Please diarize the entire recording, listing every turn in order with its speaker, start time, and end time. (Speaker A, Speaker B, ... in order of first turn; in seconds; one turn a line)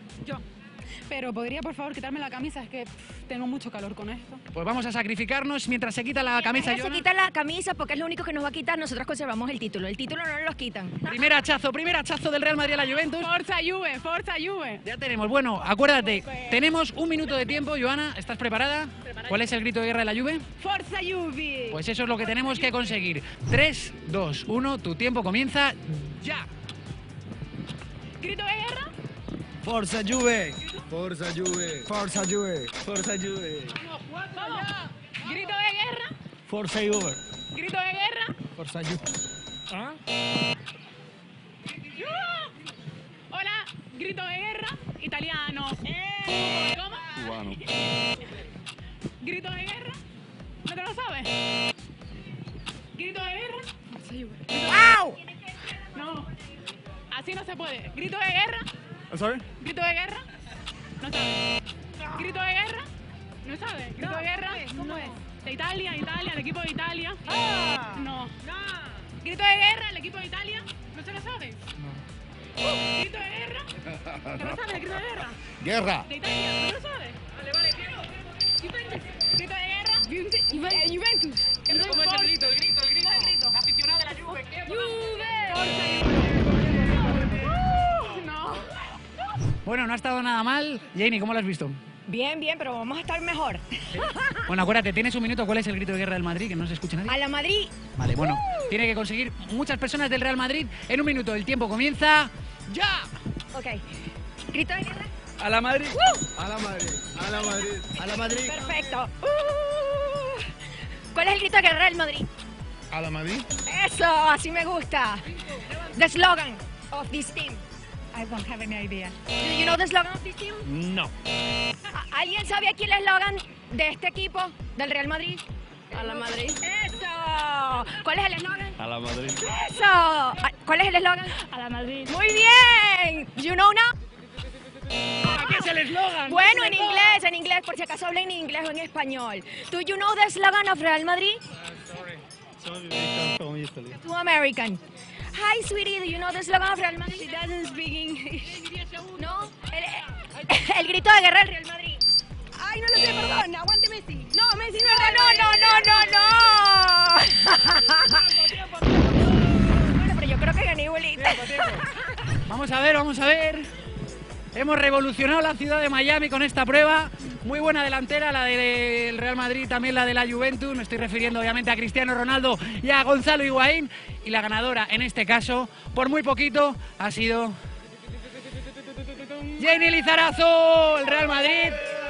Speaker A: 1.1-4.4
Speaker B: 4.5-7.0
Speaker C: 6.4-11.1
Speaker B: 11.0-13.3
Speaker A: 13.2-14.8
Speaker B: 14.8-20.4
Speaker A: 20.6-21.8
Speaker B: 21.7-26.4
Speaker A: 22.4-22.7
Speaker A: 28.2-28.9
Speaker D: 29.6-33.8
Speaker A: 34.1-36.1
Speaker D: 36.5-37.2
Speaker A: 37.5-38.4
Speaker D: 38.6-39.0
Speaker D: 39.7-40.0
Speaker A: 41.8-42.5
Speaker A: 43.3-47.6
Speaker D: 47.2-47.6
Speaker A: 49.2-50.0
Speaker A: 50.6-51.4
Speaker A: 52.9-55.2
Speaker C: 54.7-55.1
Speaker A: 55.8-56.3
Speaker A: 57.1-58.7
Speaker D: 59.1-59.4
Speaker A: 59.6-60.3
Speaker A: 61.0-61.5
Speaker A: 62.0-62.9
Speaker A: 63.4-68.4
Speaker C: 64.6-65.1
Speaker A: 69.2-71.7
Speaker A: 72.7-73.7
Speaker A: 74.2-77.2
Speaker D: 75.6-76.1
Speaker A: 78.6-82.3
Speaker B: 81.7-84.7
Speaker A: 83.0-83.5
Speaker A: 84.6-88.9
Speaker C: 84.7-85.7
Speaker B: 89.6-91.8
Speaker C: 92.1-94.4
Speaker B: 94.4-97.2
Speaker C: 97.1-97.7
Speaker B: 98.0-103.1
Speaker C: 103.5-103.8
Speaker C: 104.5-105.1
Speaker B: 105.4-105.8
Speaker D: 105.5-108.6
Speaker C: 105.9-106.3
Speaker C: 108.0-110.5
Speaker C: 111.1-112.3
Speaker D: 112.9-113.5
Speaker C: 113.7-117.6
Speaker A: 118.1-119.2
Speaker C: 119.2-120.7
Speaker D: 120.7-121.1
Speaker C: 121.9-128.8
Speaker D: 128.8-129.4
Speaker C: 129.3-133.9
Speaker A: 131.5-132.0
Speaker B: 135.2-137.2
Speaker C: 136.2-141.4
Speaker D: 142.6-143.9
Speaker C: 143.9-144.8
Speaker C: 145.3-147.5
Speaker A: 147.2-149.0
Speaker C: 149.1-152.0
Speaker A: 152.6-156.3
Speaker C: 154.5-158.4
Speaker C: 159.4-162.1
Speaker B: 161.2-163.7
Speaker B: 164.5-177.6
Speaker B: 179.6-181.8